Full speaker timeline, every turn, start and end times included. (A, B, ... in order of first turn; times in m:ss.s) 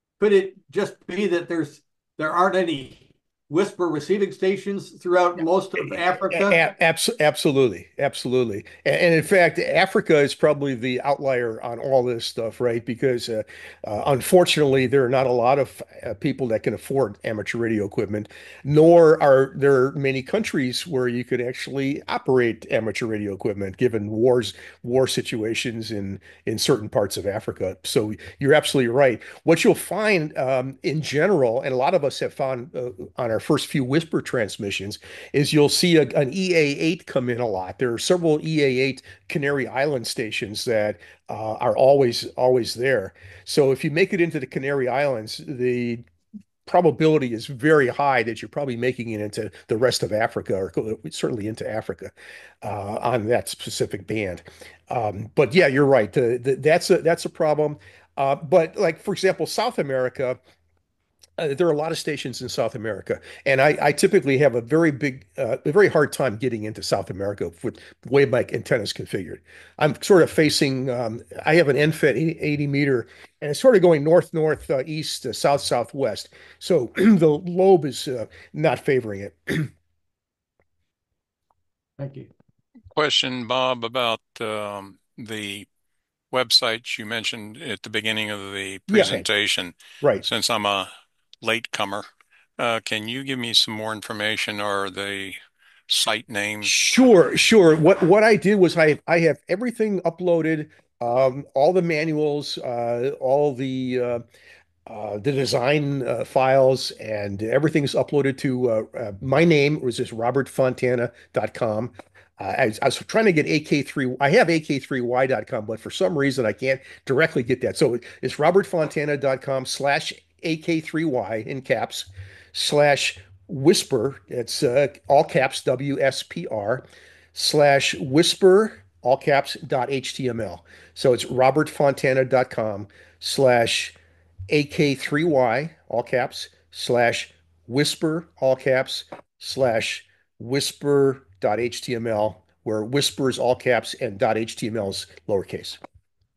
0:00.2-0:06.6 A
0:06.3-0:46.0 B
0:46.7-1:00.4 B
1:01.4-1:19.7 B
1:22.0-1:22.3 A
1:22.9-1:25.7 C
1:26.3-1:30.9 C
1:28.9-1:29.3 B
1:31.4-1:36.7 C
1:36.6-1:44.2 B
1:44.9-2:14.0 B
2:14.5-2:25.8 B